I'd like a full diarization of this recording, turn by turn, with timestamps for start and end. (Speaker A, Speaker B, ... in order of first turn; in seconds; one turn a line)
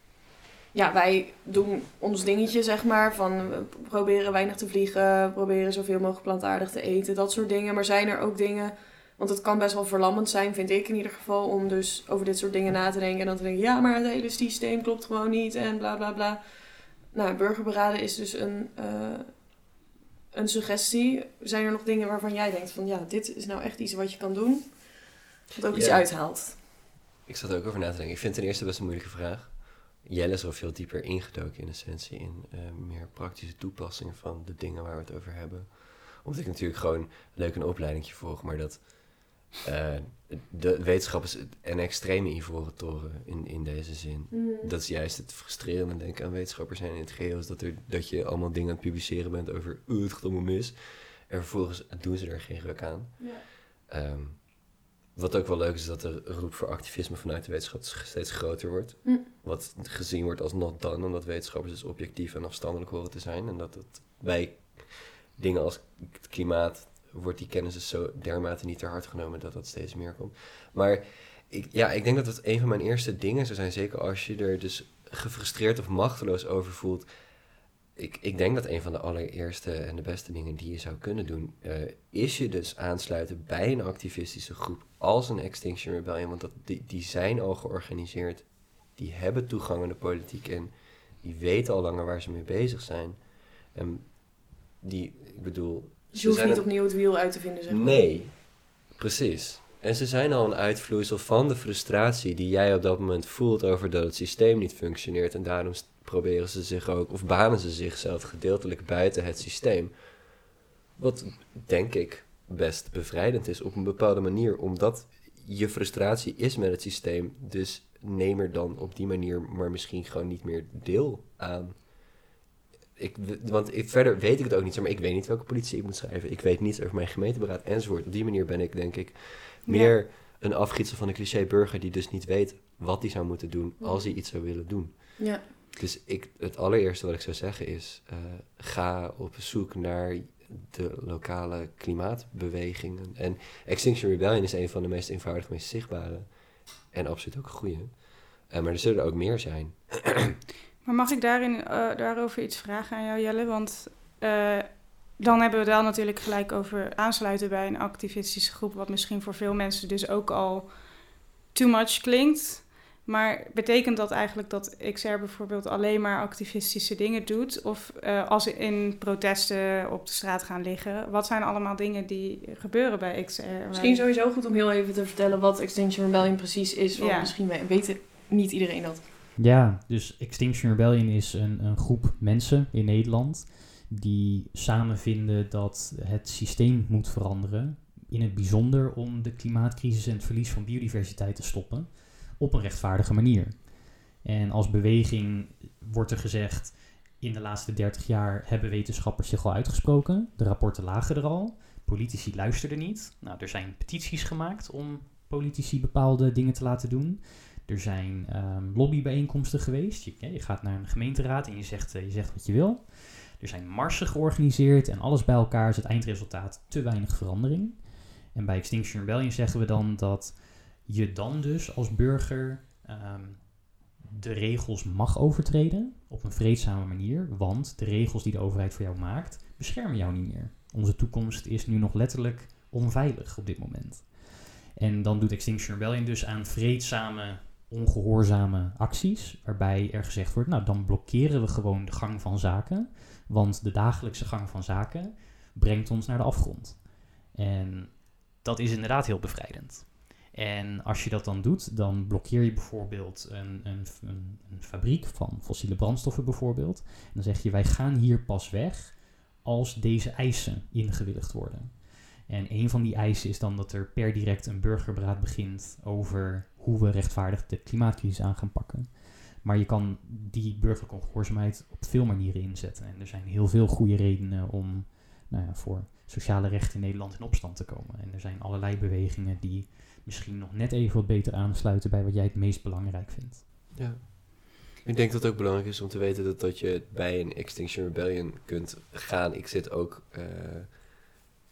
Speaker A: 0.7-16.4
Speaker A: 17.1-19.5
Speaker A: 20.3-26.6
Speaker B: 25.7-26.1
Speaker B: 27.2-77.1
Speaker A: 44.3-44.7
Speaker B: 77.9-109.9
Speaker A: 96.1-98.0
Speaker B: 111.0-122.0
Speaker B: 123.0-150.3
Speaker C: 129.7-129.9
Speaker A: 133.8-134.2
Speaker A: 135.2-135.5
Speaker C: 150.8-174.1
Speaker A: 173.7-179.0
Speaker C: 176.9-177.3
Speaker D: 179.3-283.4
Speaker B: 283.8-290.8